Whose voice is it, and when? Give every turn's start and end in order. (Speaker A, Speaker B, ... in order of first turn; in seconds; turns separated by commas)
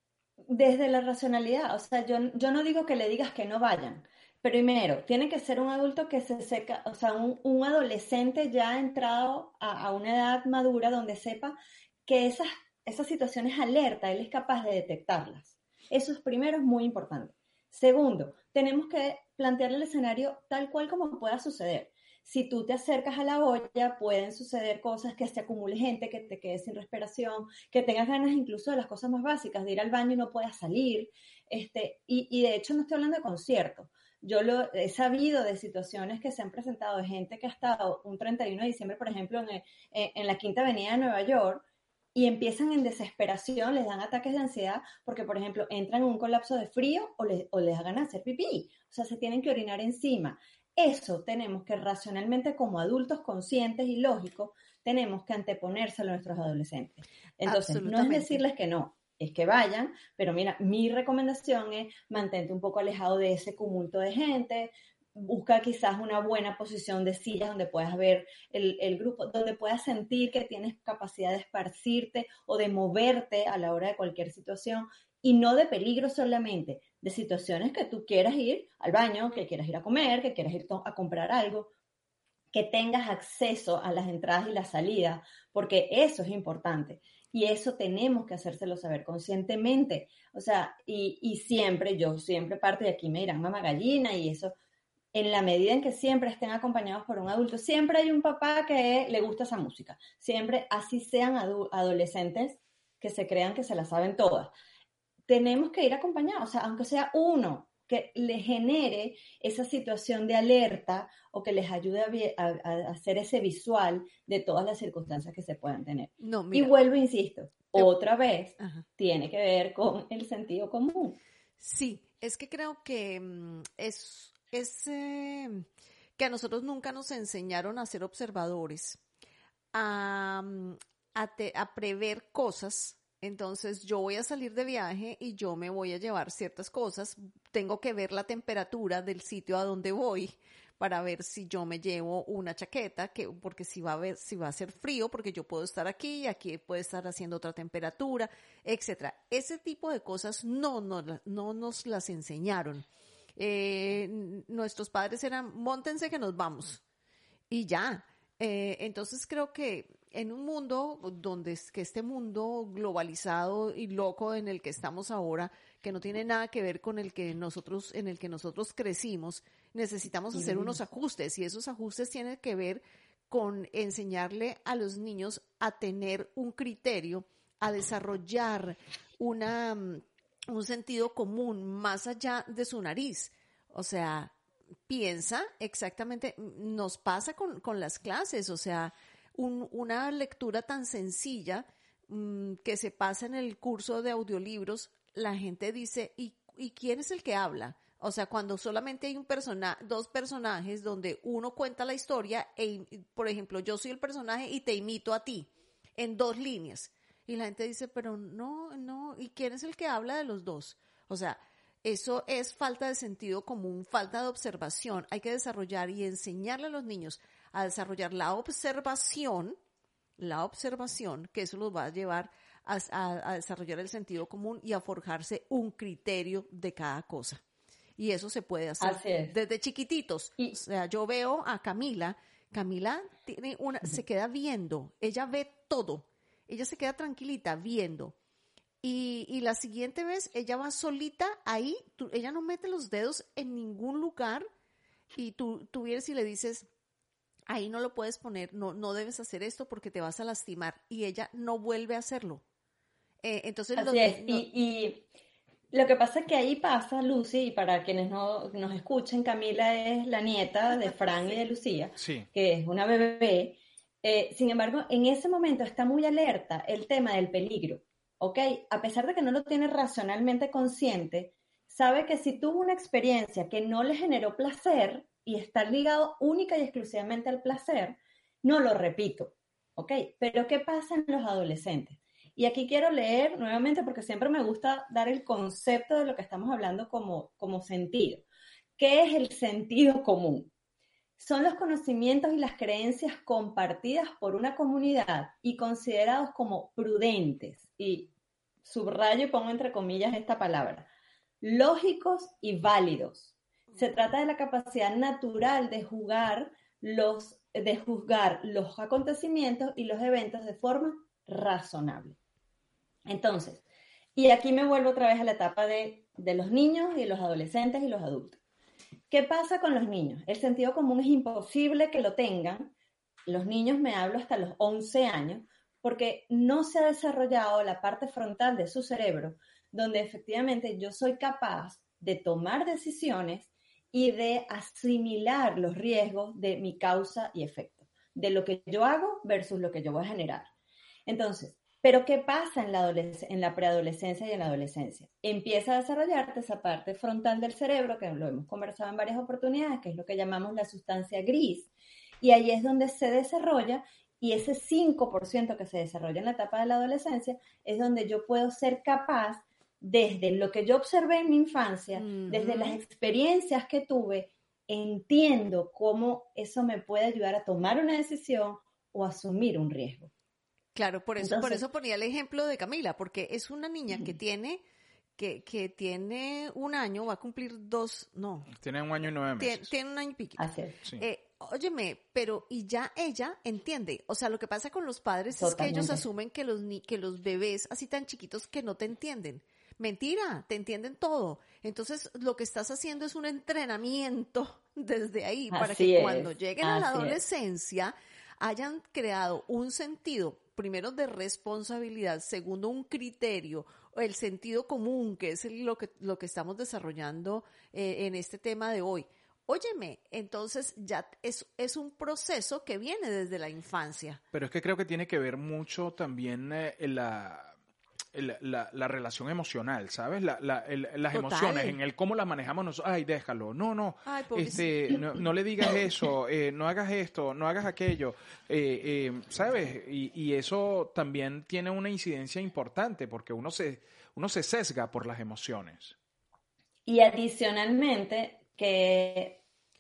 Speaker A: 0.5-81.7, Speaker B: 57.4-58.4, Speaker A: 82.5-94.5, Speaker A: 95.1-104.5, Speaker A: 105.3-121.2, Speaker B: 116.2-116.7, Speaker B: 118.6-118.8, Speaker B: 121.6-125.7, Speaker B: 126.2-129.0, Speaker B: 129.7-156.8, Speaker B: 157.5-184.3, Speaker A: 170.3-170.8, Speaker B: 184.9-219.6, Speaker B: 220.2-227.4, Speaker B: 228.0-238.2, Speaker A: 228.8-229.3, Speaker B: 238.8-244.4, Speaker B: 245.1-246.7, Speaker B: 247.5-252.4, Speaker B: 253.2-254.4, Speaker A: 253.8-255.1, Speaker A: 255.7-288.2, Speaker C: 262.0-262.3, Speaker A: 288.8-290.5, Speaker A: 291.2-298.1, Speaker A: 298.6-300.9, Speaker A: 301.4-312.2, Speaker A: 313.1-313.6, Speaker A: 314.1-318.4, Speaker A: 319.1-322.7, Speaker A: 323.2-340.5, Speaker A: 341.1-351.7, Speaker A: 352.2-370.1, Speaker B: 361.9-362.8, Speaker B: 370.7-374.6, Speaker A: 371.2-371.6, Speaker B: 375.2-378.5, Speaker C: 378.5-379.7, Speaker B: 379.4-380.4, Speaker A: 380.4-380.8, Speaker B: 381.0-414.2, Speaker A: 385.3-386.0, Speaker A: 395.5-397.2, Speaker C: 414.3-417.5, Speaker C: 418.1-435.9, Speaker B: 421.1-421.8, Speaker B: 424.1-425.2, Speaker A: 436.9-439.4